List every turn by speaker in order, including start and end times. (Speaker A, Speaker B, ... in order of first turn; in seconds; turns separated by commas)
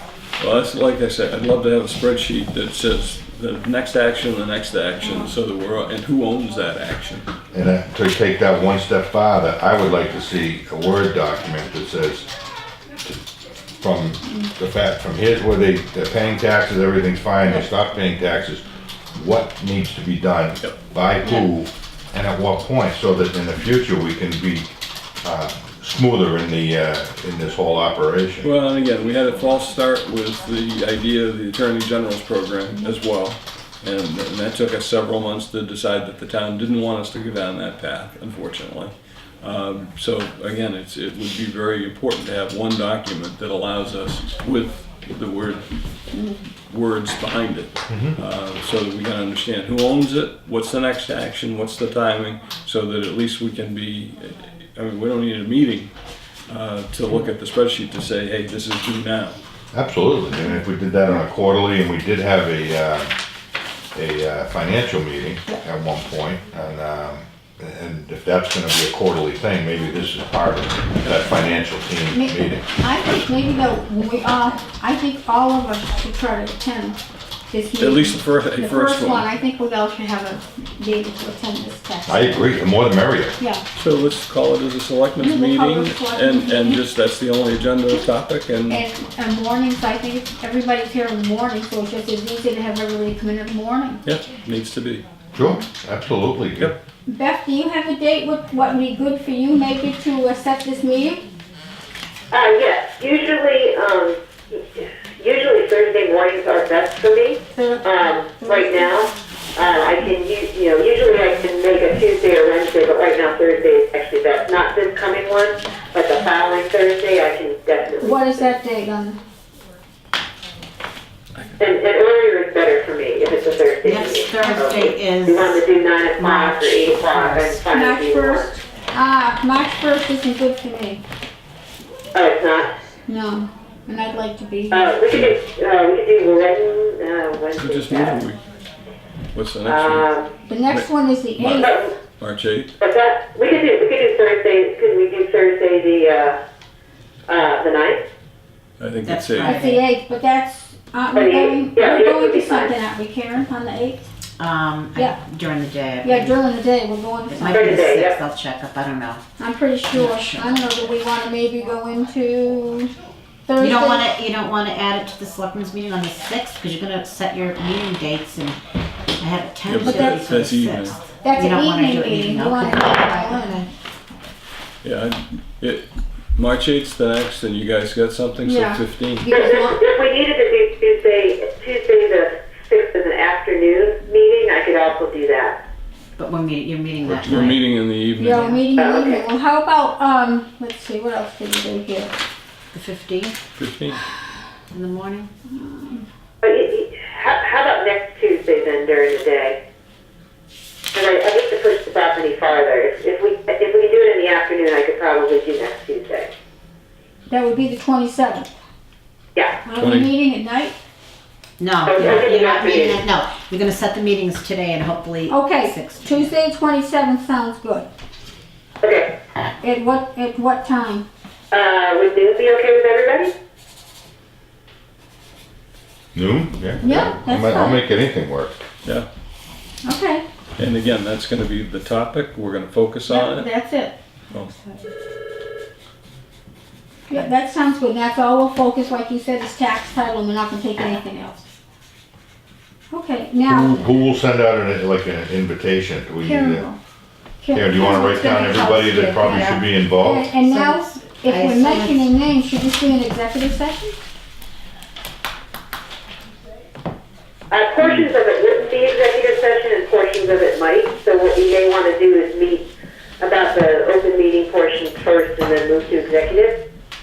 Speaker A: 0.4-7.3, Speaker B: 5.0-5.3, Speaker C: 7.5-12.3, Speaker C: 13.8-24.7, Speaker B: 14.2-14.5, Speaker C: 25.2-28.5, Speaker A: 28.4-45.7, Speaker B: 46.1-46.4, Speaker A: 46.7-55.9, Speaker C: 47.9-48.1, Speaker A: 56.5-59.4, Speaker C: 59.7-63.1, Speaker C: 63.9-72.6, Speaker B: 72.1-77.0, Speaker B: 77.5-82.5, Speaker A: 77.8-79.3, Speaker C: 82.1-83.4, Speaker B: 83.4-83.6, Speaker A: 83.7-88.8, Speaker B: 85.2-86.8, Speaker B: 88.7-94.0, Speaker A: 94.0-95.0, Speaker C: 95.3-96.7, Speaker B: 97.1-101.2, Speaker D: 102.3-118.5, Speaker B: 107.5-109.0, Speaker B: 118.0-119.2, Speaker D: 121.6-128.6, Speaker E: 123.8-125.6, Speaker E: 126.1-127.6, Speaker B: 127.7-131.0, Speaker D: 132.1-132.7, Speaker B: 133.1-134.8, Speaker D: 134.7-138.2, Speaker A: 137.5-138.4, Speaker A: 139.3-140.1, Speaker D: 139.6-140.3, Speaker B: 140.5-141.7, Speaker A: 140.7-141.7, Speaker D: 141.5-142.0, Speaker A: 142.2-142.7, Speaker D: 142.8-146.4, Speaker D: 147.3-148.0, Speaker A: 148.8-149.6, Speaker E: 149.0-149.8, Speaker B: 149.4-154.0, Speaker D: 151.1-152.7, Speaker E: 154.4-156.5, Speaker B: 156.0-157.8, Speaker E: 157.3-159.2, Speaker D: 157.4-158.2, Speaker B: 159.4-162.9, Speaker E: 159.9-160.6, Speaker B: 163.4-164.1, Speaker E: 163.6-173.6, Speaker A: 169.7-170.9, Speaker B: 169.8-170.2, Speaker B: 171.2-173.7, Speaker A: 174.8-179.3, Speaker B: 178.4-179.8, Speaker D: 179.3-185.6, Speaker E: 186.2-187.7, Speaker A: 187.0-188.5, Speaker B: 188.2-192.1, Speaker D: 188.8-189.2, Speaker E: 192.7-193.4, Speaker A: 193.5-194.0, Speaker E: 194.7-195.3, Speaker B: 195.5-196.1, Speaker D: 196.4-199.6, Speaker D: 200.9-206.3, Speaker B: 207.3-208.5, Speaker B: 209.6-210.8, Speaker A: 209.8-210.1, Speaker E: 211.6-216.3, Speaker D: 211.8-213.0, Speaker B: 215.3-217.9, Speaker D: 218.8-219.1, Speaker B: 219.6-221.1, Speaker D: 221.5-223.3, Speaker C: 226.1-228.6, Speaker B: 226.8-227.8, Speaker B: 229.8-230.2, Speaker A: 230.6-233.5, Speaker B: 233.1-233.9, Speaker B: 237.1-241.4, Speaker B: 242.9-243.8, Speaker C: 243.5-246.7, Speaker B: 246.2-246.8, Speaker B: 247.4-253.9, Speaker C: 247.5-250.3, Speaker E: 250.4-252.1, Speaker D: 257.5-262.7, Speaker D: 263.2-266.6